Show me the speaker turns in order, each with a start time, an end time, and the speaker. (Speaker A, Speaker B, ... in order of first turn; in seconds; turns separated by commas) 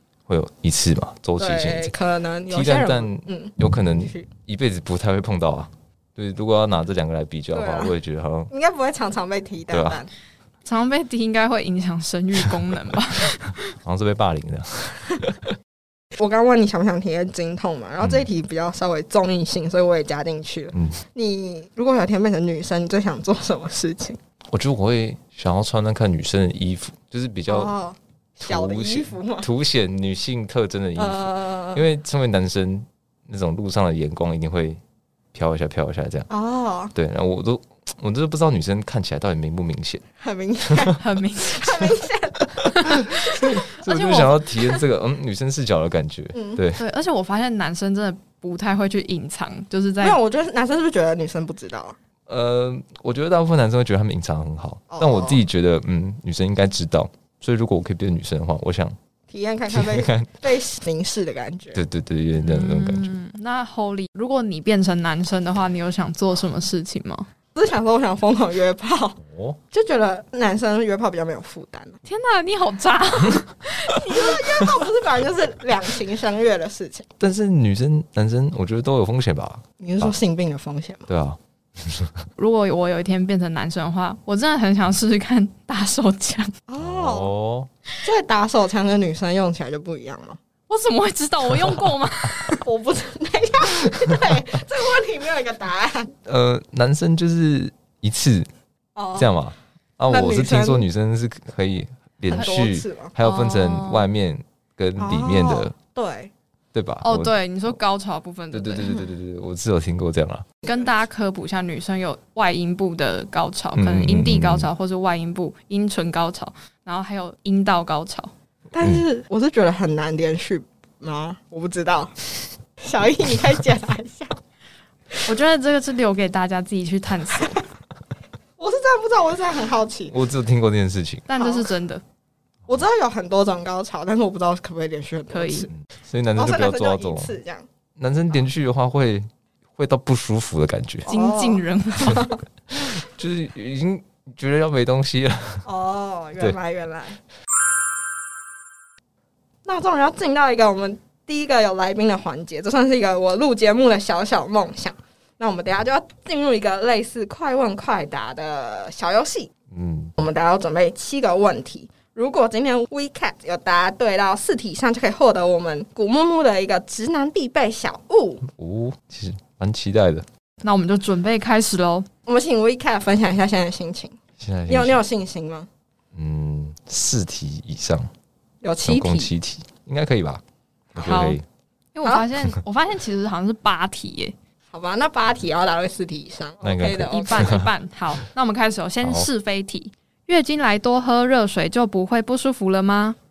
Speaker A: 0.3-1.9, Speaker B: 1.4-4.3, Speaker A: 2.5-8.5, Speaker B: 7.5-7.9, Speaker B: 8.5-10.1, Speaker A: 9.7-10.0, Speaker C: 10.6-13.7, Speaker A: 13.8-15.5, Speaker B: 16.1-24.2, Speaker A: 18.0-18.3, Speaker A: 20.7-21.0, Speaker A: 24.5-27.7, Speaker B: 27.5-29.5, Speaker A: 28.4-34.8, Speaker B: 30.9-31.8, Speaker A: 35.3-36.3, Speaker B: 36.3-36.9, Speaker A: 36.9-40.0, Speaker B: 40.2-42.8, Speaker A: 40.7-40.9, Speaker C: 41.0-42.0, Speaker C: 42.7-44.4, Speaker A: 43.1-46.8, Speaker B: 46.3-46.6, Speaker C: 46.8-50.2, Speaker B: 50.0-52.0, Speaker A: 52.3-59.0, Speaker B: 54.9-55.4, Speaker B: 59.3-61.8, Speaker A: 59.7-60.4, Speaker A: 61.7-63.1, Speaker C: 62.4-67.3, Speaker B: 67.5-69.2, Speaker A: 69.2-69.6, Speaker B: 69.7-72.0, Speaker C: 72.0-74.0, Speaker B: 73.8-77.1, Speaker A: 77.2-80.1, Speaker B: 79.8-81.1, Speaker A: 81.1-82.3, Speaker C: 82.4-86.5, Speaker B: 86.7-87.3, Speaker A: 86.8-87.7, Speaker B: 88.0-90.4, Speaker C: 90.7-92.6, Speaker A: 91.5-91.8, Speaker B: 92.6-96.1, Speaker A: 96.2-98.5, Speaker B: 99.0-99.3, Speaker A: 99.2-105.8, Speaker B: 100.1-100.9, Speaker B: 102.3-103.1, Speaker C: 103.2-104.1, Speaker B: 105.0-106.3, Speaker A: 106.7-107.8, Speaker C: 107.0-109.0, Speaker A: 108.5-110.5, Speaker C: 110.7-118.3, Speaker A: 113.8-114.7, Speaker B: 118.7-124.4, Speaker C: 125.2-127.6, Speaker B: 128.6-130.1, Speaker A: 130.1-131.3, Speaker C: 131.3-132.0, Speaker B: 131.3-131.7, Speaker B: 132.7-135.7, Speaker C: 135.3-135.7, Speaker A: 135.7-137.3, Speaker B: 136.4-137.7, Speaker A: 138.0-141.1, Speaker B: 141.1-142.4, Speaker C: 141.1-142.3, Speaker A: 142.7-145.7, Speaker B: 145.6-147.2, Speaker B: 149.6-159.5, Speaker A: 159.7-160.1, Speaker B: 160.2-168.4, Speaker A: 168.4-170.3, Speaker C: 170.6-172.1, Speaker B: 172.2-174.2, Speaker A: 174.4-175.0, Speaker B: 174.7-175.7, Speaker A: 176.1-178.1, Speaker B: 178.6-179.3, Speaker A: 178.8-180.4, Speaker A: 180.9-181.4, Speaker C: 181.0-181.4, Speaker C: 181.9-184.3, Speaker B: 184.7-187.6, Speaker A: 186.6-187.7, Speaker C: 187.0-193.2, Speaker A: 189.0-189.3